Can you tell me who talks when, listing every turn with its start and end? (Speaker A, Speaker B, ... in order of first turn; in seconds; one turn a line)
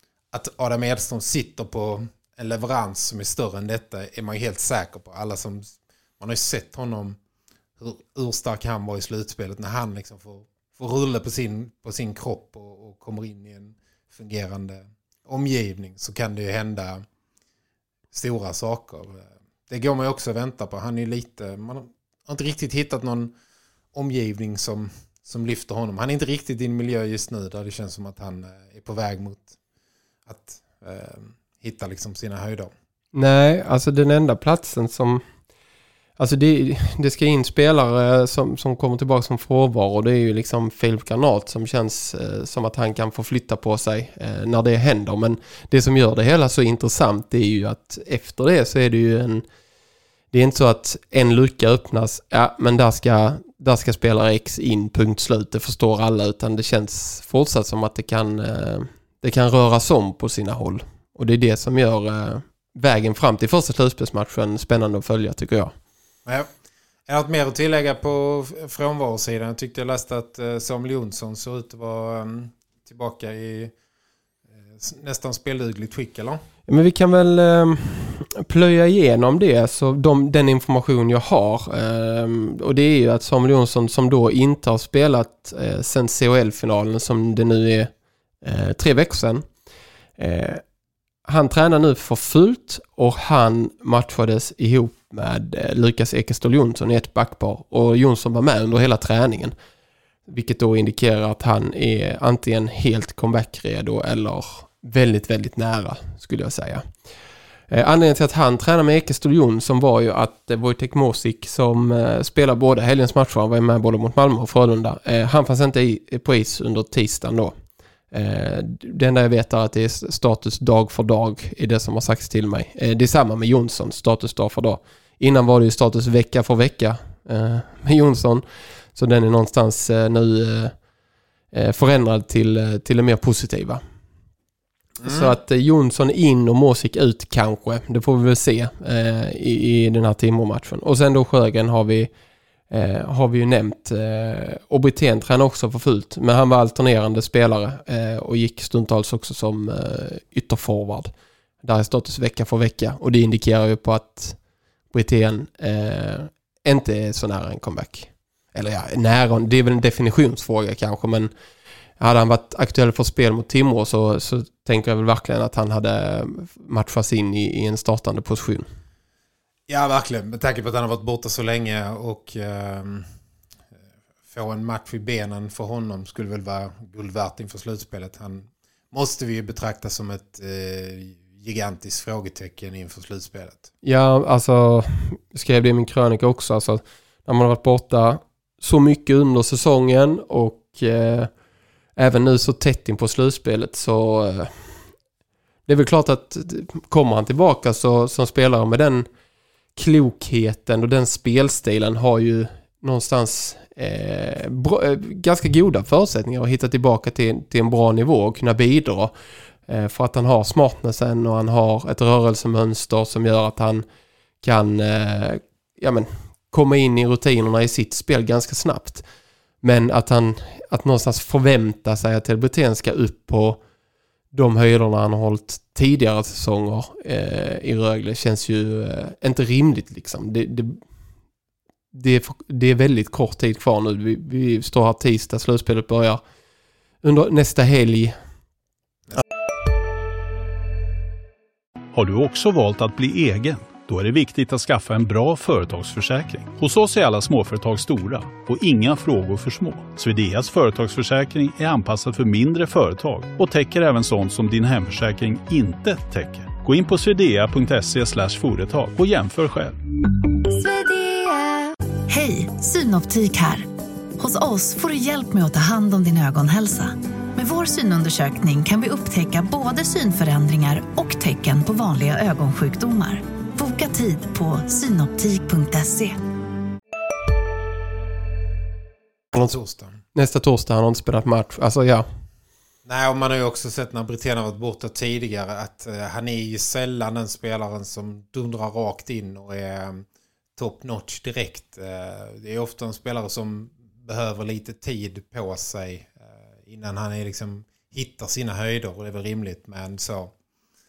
Speaker A: 0.3-7.2
Speaker A: 7.8-17.0
Speaker A: 18.1-23.3
Speaker A: 23.9-29.5
Speaker A: 30.3-32.7
Speaker B: 33.1-35.2
Speaker B: 36.2-49.4
Speaker B: 50.3-65.7
Speaker A: 67.1-73.7
Speaker A: 74.8-76.4
Speaker B: 76.7-87.9
Speaker B: 88.4-89.5
Speaker B: 90.2-90.6
Speaker B: 91.2-99.5
Speaker B: 100.3-106.8
Speaker B: 107.7-117.5
Speaker B: 118.1-128.4
Speaker B: 128.9-130.7
Speaker B: 131.5-133.8
Speaker A: 135.0-135.3
Speaker B: 135.0-142.1
Speaker B: 142.7-151.1
Speaker B: 151.6-154.4
Speaker B: 154.9-161.3
Speaker B: 162.0-168.7
Speaker A: 169.7-173.1
Speaker A: 174.3-183.7
Speaker B: 183.8-191.3
Speaker B: 191.9-194.8
Speaker B: 195.7-199.1
Speaker B: 199.8-209.1
Speaker B: 209.7-213.8
Speaker B: 214.4-219.0
Speaker B: 219.6-223.6
Speaker B: 224.3-230.8
Speaker B: 231.9-236.2
Speaker B: 237.0-238.2
Speaker C: 241.9-259.8
Speaker D: 260.5-263.7
Speaker D: 264.2-276.2
Speaker A: 279.3-280.0
Speaker B: 280.1-282.1
Speaker A: 282.8-290.0
Speaker A: 290.6-300.3